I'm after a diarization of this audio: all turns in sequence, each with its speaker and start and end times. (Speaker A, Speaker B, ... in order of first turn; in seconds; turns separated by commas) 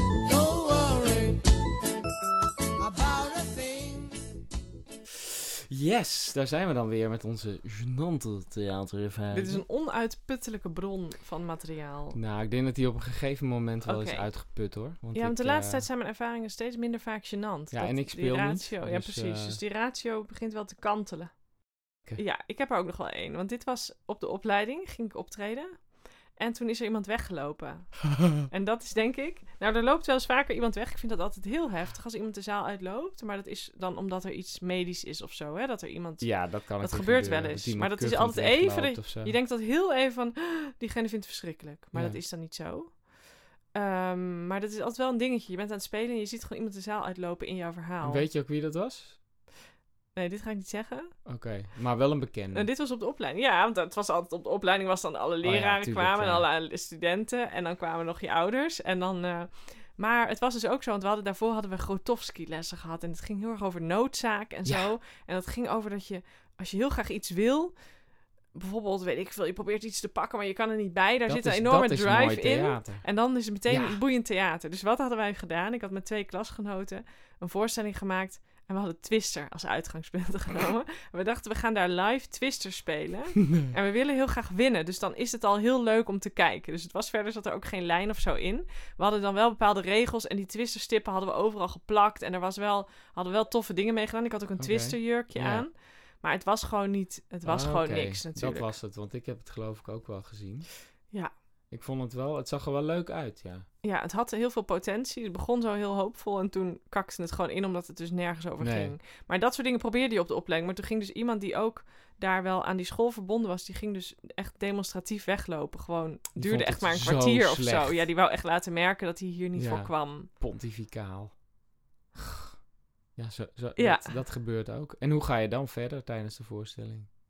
Speaker A: 0.2-1.4, Speaker A: 2.8-4.2, Speaker A: 5.2-9.6, Speaker B: 9.3-12.2, Speaker A: 12.1-15.8, Speaker B: 13.8-14.3, Speaker B: 15.1-21.3, Speaker A: 17.7-19.6, Speaker B: 22.2-25.8, Speaker B: 26.4-43.0, Speaker A: 36.2-39.3, Speaker B: 43.7-48.2, Speaker A: 48.0-49.2, Speaker B: 50.1-51.1, Speaker A: 51.2-52.7, Speaker B: 52.5-67.7, Speaker A: 55.4-56.4, Speaker A: 64.6-64.9, Speaker B: 68.5-98.7, Speaker A: 71.3-73.0, Speaker A: 73.7-74.0, Speaker A: 94.6-95.7, Speaker A: 97.4-100.7, Speaker A: 101.7-103.7, Speaker B: 103.8-120.3, Speaker A: 108.6-108.9, Speaker A: 116.3-118.1, Speaker A: 119.5-121.3, Speaker A: 123.2-127.1, Speaker B: 123.8-124.1